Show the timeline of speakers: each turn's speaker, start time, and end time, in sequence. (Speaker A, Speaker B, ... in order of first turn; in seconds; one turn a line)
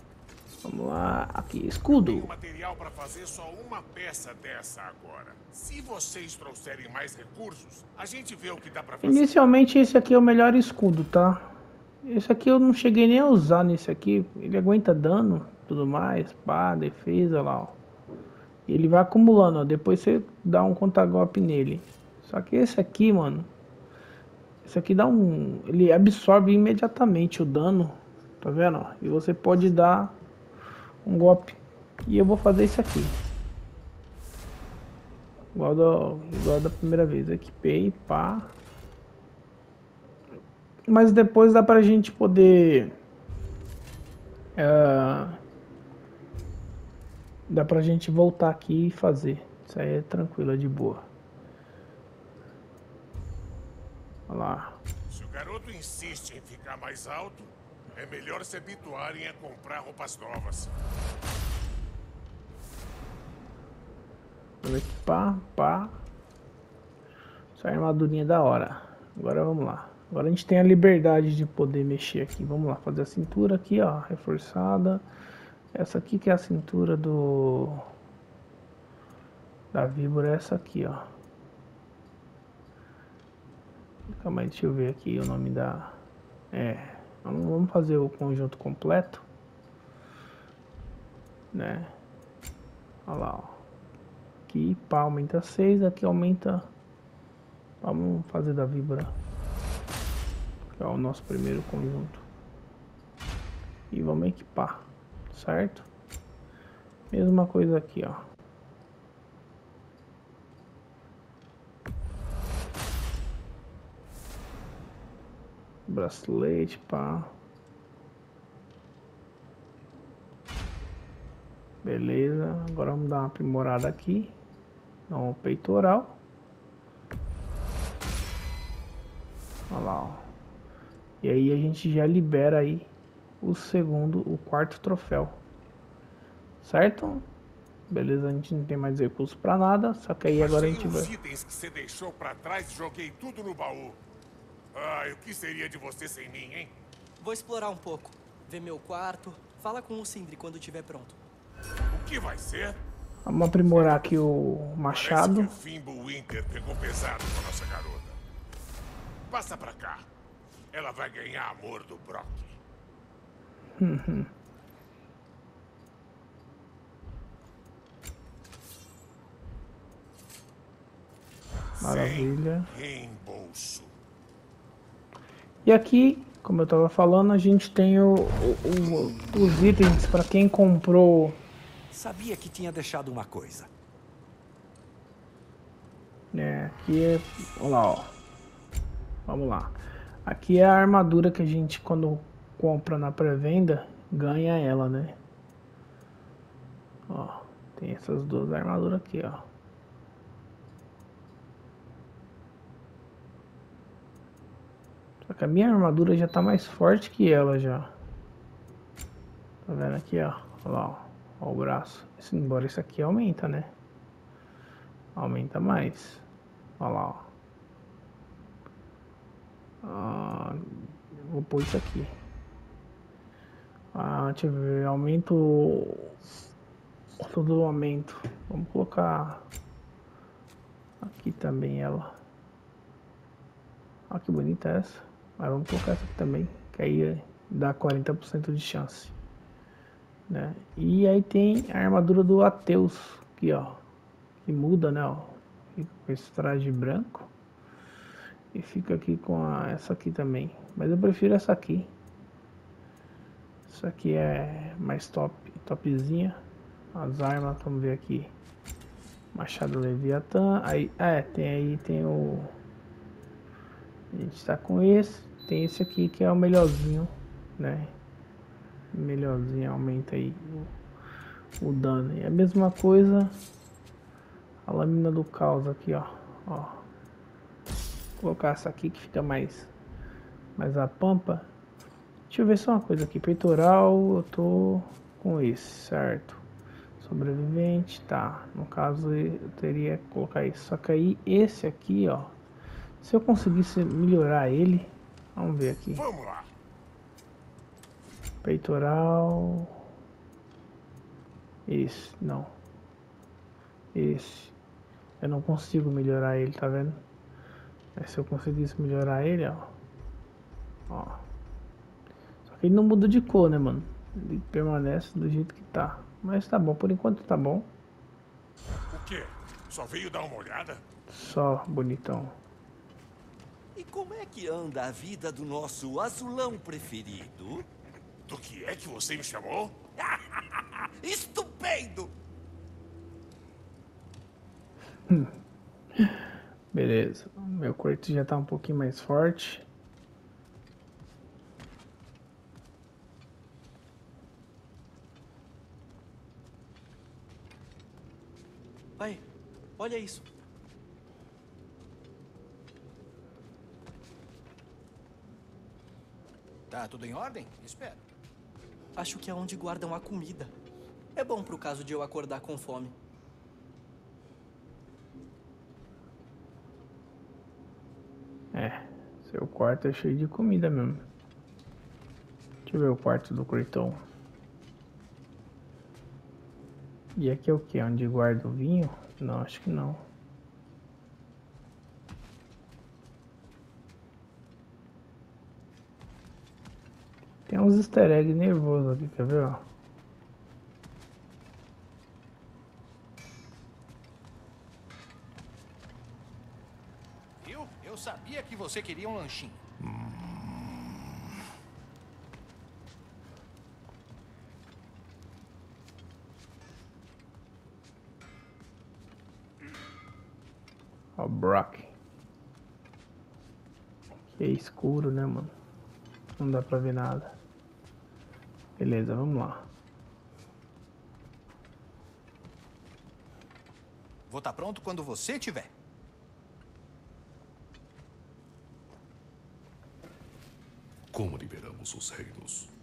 Speaker A: 0.6-2.3
Speaker B: 1.9-9.3
Speaker A: 9.0-17.8
Speaker A: 18.7-23.5
Speaker A: 24.6-30.2
Speaker A: 31.0-33.2
Speaker A: 35.5-38.5
Speaker A: 40.9-43.0
Speaker A: 44.6-45.4
Speaker A: 47.5-51.1
Speaker A: 54.3-54.8
Speaker B: 55.1-60.7
Speaker A: 64.6-66.0
Speaker A: 67.5-75.1
Speaker A: 75.7-77.9
Speaker A: 79.7-81.1
Speaker A: 84.1-86.0
Speaker A: 86.5-89.2
Speaker A: 91.5-91.9
Speaker A: 93.1-93.6
Speaker A: 94.5-96.7
Speaker A: 97.8-99.1
Speaker A: 100.8-102.2
Speaker A: 103.9-105.9
Speaker A: 107.1-108.2
Speaker A: 115.9-117.3
Speaker A: 121.8-124.3
Speaker A: 125.1-126.2
Speaker A: 129.7-130.3
Speaker A: 131.2-132.9
Speaker A: 133.4-135.4
Speaker A: 136.6-137.3
Speaker A: 137.9-141.1
Speaker B: 140.4-144.0
Speaker B: 144.7-146.7
Speaker C: 147.2-151.2
Speaker B: 151.9-152.8
Speaker A: 153.3-155.6
Speaker B: 154.9-158.2
Speaker B: 159.3-160.1
Speaker B: 160.7-162.6
Speaker A: 163.8-164.3
Speaker B: 171.8-173.9
Speaker A: 171.8-172.7
Speaker A: 175.7-181.4
Speaker D: 181.9-183.7
Speaker A: 186.3-188.1
Speaker A: 189.3-195.2
Speaker A: 197.1-199.4
Speaker A: 205.2-207.9
Speaker A: 209.7-213.7
Speaker A: 215.2-216.2
Speaker A: 216.8-217.3
Speaker A: 219.8-222.1
Speaker A: 223.9-226.4
Speaker A: 227.2-229.4
Speaker A: 231.0-232.2
Speaker A: 234.1-239.2
Speaker A: 240.3-243.8
Speaker A: 244.4-247.3
Speaker A: 248.5-251.9
Speaker A: 253.7-256.4
Speaker A: 256.9-258.3
Speaker A: 259.3-262.6
Speaker A: 264.1-267.9
Speaker A: 268.9-270.7
Speaker A: 271.6-273.4
Speaker A: 274.6-276.8
Speaker A: 278.2-279.7
Speaker A: 280.6-281.5
Speaker A: 282.3-286.4
Speaker A: 287.0-292.4
Speaker A: 293.0-296.1
Speaker B: 295.9-296.5
Speaker A: 298.4-299.8
Speaker A: 301.7-302.6
Speaker A: 303.9-304.6
Speaker A: 305.2-307.0
Speaker A: 308.0-309.7
Speaker A: 310.9-311.2
Speaker A: 312.5-317.7
Speaker B: 318.9-320.8
Speaker A: 321.1-322.4
Speaker D: 323.8-327.7
Speaker B: 328.3-329.8
Speaker D: 330.0-332.1
Speaker A: 336.0-339.6
Speaker C: 349.0-349.2
Speaker C: 349.8-350.3
Speaker E: 356.7-358.1
Speaker C: 359.0-360.5
Speaker C: 361.2-362.9
Speaker A: 368.5-371.1
Speaker A: 372.7-374.0
Speaker A: 377.2-380.0
Speaker A: 387.5-389.7
Speaker E: 397.4-399.6
Speaker F: 399.9-400.3
Speaker A: 411.2-411.9
Speaker A: 414.3-415.5
Speaker A: 416.4-417.4
Speaker A: 418.8-419.7
Speaker E: 424.3-425.7
Speaker F: 431.1-432.7